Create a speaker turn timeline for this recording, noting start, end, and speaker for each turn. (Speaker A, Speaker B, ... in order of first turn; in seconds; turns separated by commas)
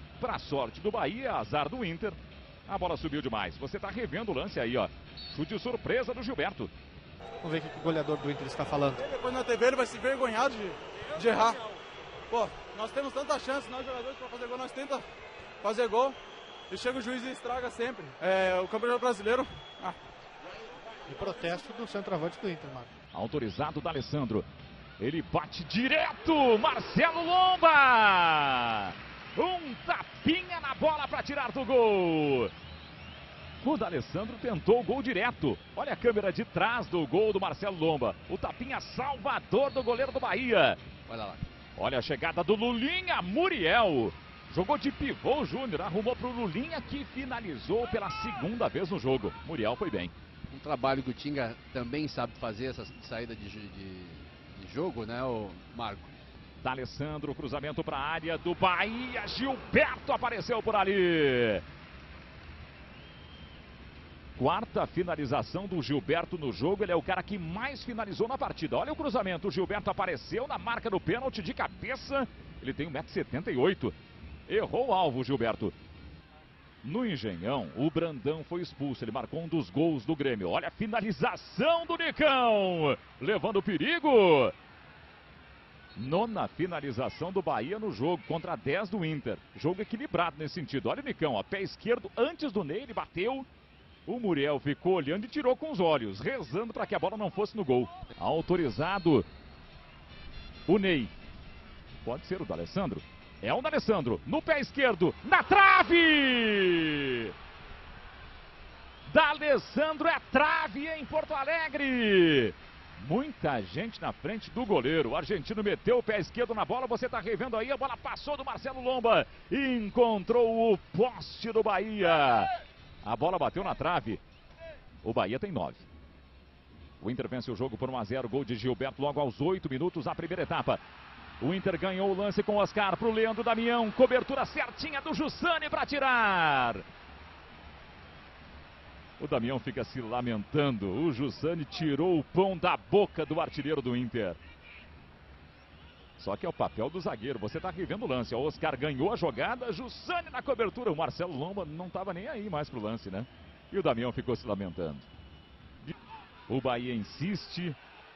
Speaker A: 0.2-6.7, Speaker B: 7.4-9.1, Speaker C: 9.0-11.6, Speaker C: 12.3-15.0, Speaker C: 15.6-16.2, Speaker C: 16.7-20.0, Speaker B: 21.1-22.9, Speaker A: 23.1-24.5, Speaker A: 25.0-32.5, Speaker A: 33.6-40.8, Speaker D: 41.1-41.5, Speaker A: 41.8-50.1, Speaker D: 50.5-56.2, Speaker A: 56.6-61.6, Speaker A: 64.4-74.0, Speaker A: 74.5-75.8, Speaker A: 76.8-84.6, Speaker A: 86.0-93.5, Speaker A: 94.1-99.3, Speaker A: 100.7-101.1, Speaker A: 102.0-107.3, Speaker A: 109.1-122.5, Speaker A: 123.0-124.2, Speaker A: 125.0-125.9, Speaker A: 127.0-130.8, Speaker A: 131.4-136.9, Speaker A: 139.2-144.4, Speaker A: 146.2-155.1, Speaker A: 156.5-157.8